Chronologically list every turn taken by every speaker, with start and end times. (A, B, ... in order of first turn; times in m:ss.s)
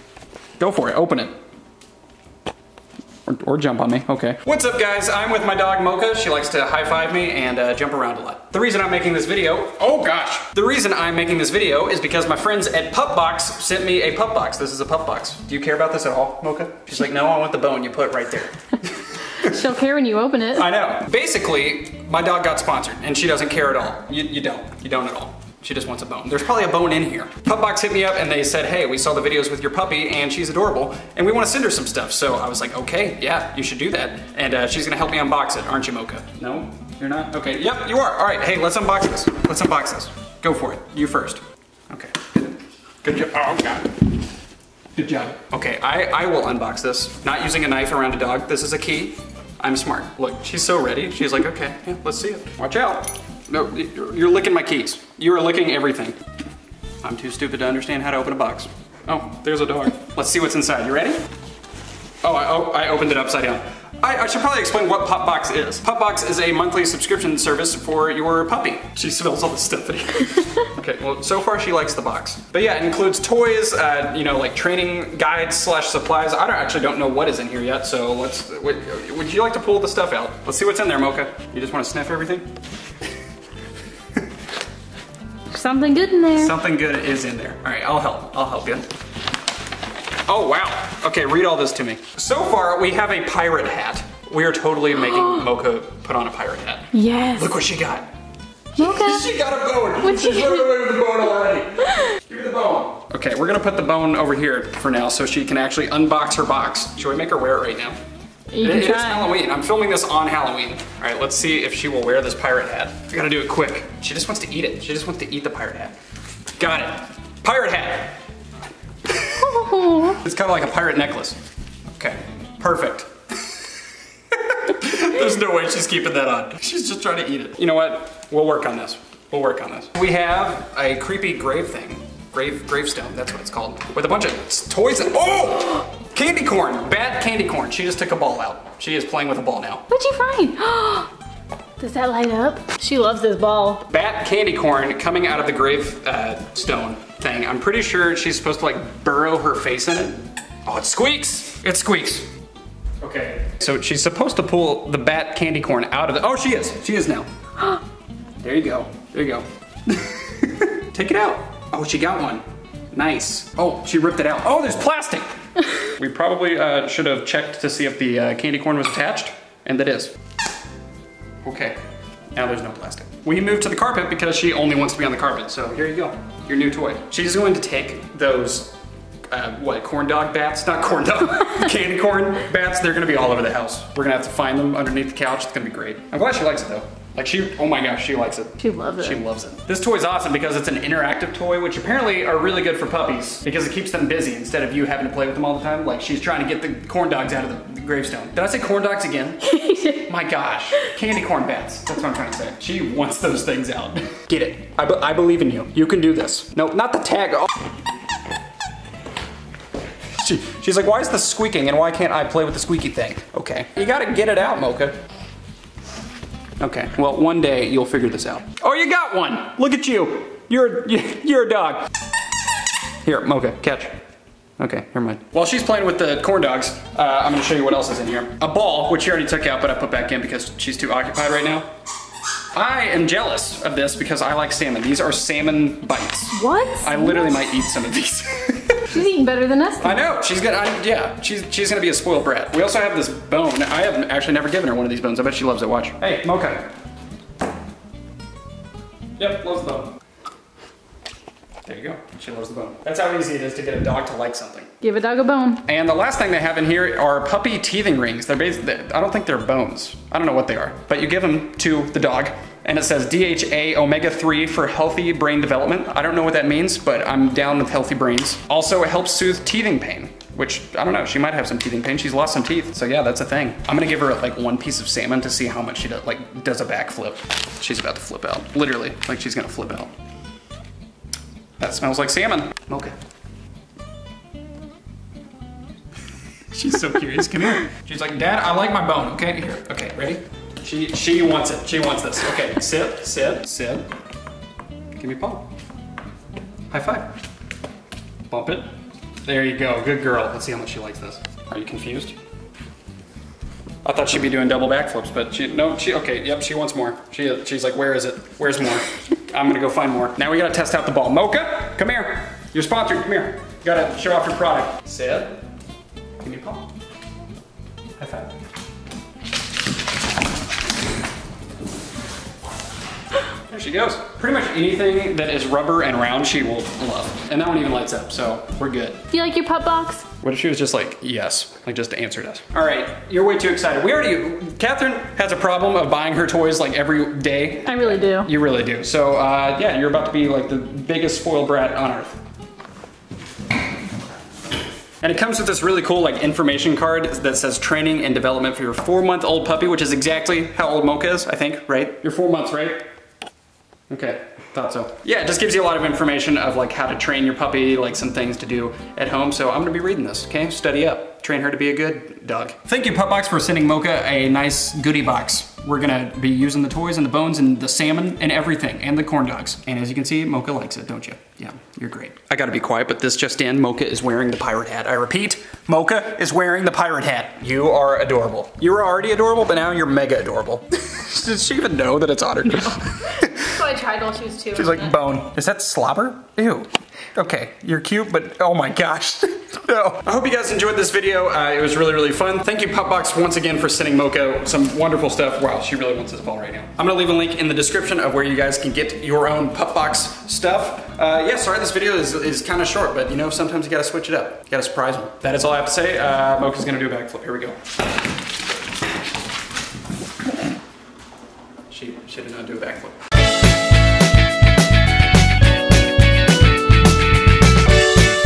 0:00.6-0:01.3 A
0:03.3-0:19.5 A
0:19.4-0:20.7 B
0:20.6-0:44.0 A
0:45.0-0:56.2 A
0:57.0-1:01.2 A
1:02.2-1:22.5 A
1:25.5-1:26.5 B
1:26.3-1:28.9 A
1:30.2-1:38.1 A
1:36.9-1:37.5 B
1:38.8-1:48.0 A
1:38.8-1:39.3 B
1:40.0-1:40.7 B
1:48.5-1:49.3 B
1:48.6-1:56.0 A
1:56.6-1:58.2 A
1:59.1-2:01.4 A
1:59.4-2:00.2 B
2:01.9-2:03.6 A
2:04.3-2:19.9 A
2:19.9-2:21.1 B
2:21.8-2:23.8 B
2:23.9-2:32.3 A
2:33.0-2:37.3 A
2:38.4-2:50.1 A
2:51.4-2:51.8 A
2:52.4-2:58.7 A
2:59.3-3:27.5 A
3:08.6-3:09.2 B
3:19.5-3:20.0 B
3:30.2-3:35.0 A
3:36.6-3:41.9 A
3:43.0-3:44.0 A
3:44.6-3:51.7 A
3:52.5-3:59.0 A
3:56.3-3:57.4 B
3:58.9-4:00.0 B
3:59.8-4:06.6 A
4:09.2-4:09.9 A
4:11.7-4:14.7 A
4:14.8-4:15.6 B
4:15.6-4:39.9 A
4:41.6-4:43.0 A
4:46.5-4:53.9 A
4:55.0-4:55.5 A
4:56.7-4:57.1 A
4:58.3-4:58.7 A
4:59.2-5:02.2 A
5:03.8-5:15.4 A
5:16.2-5:16.6 A
5:18.0-5:18.3 A
5:23.5-5:29.1 A
5:29.1-5:30.1 B
5:30.2-5:42.2 A
5:37.6-5:38.3 B
5:45.0-5:52.9 A
5:53.9-6:23.6 A
6:23.2-6:24.9 B
6:24.5-6:47.6 A
6:51.7-6:53.0 A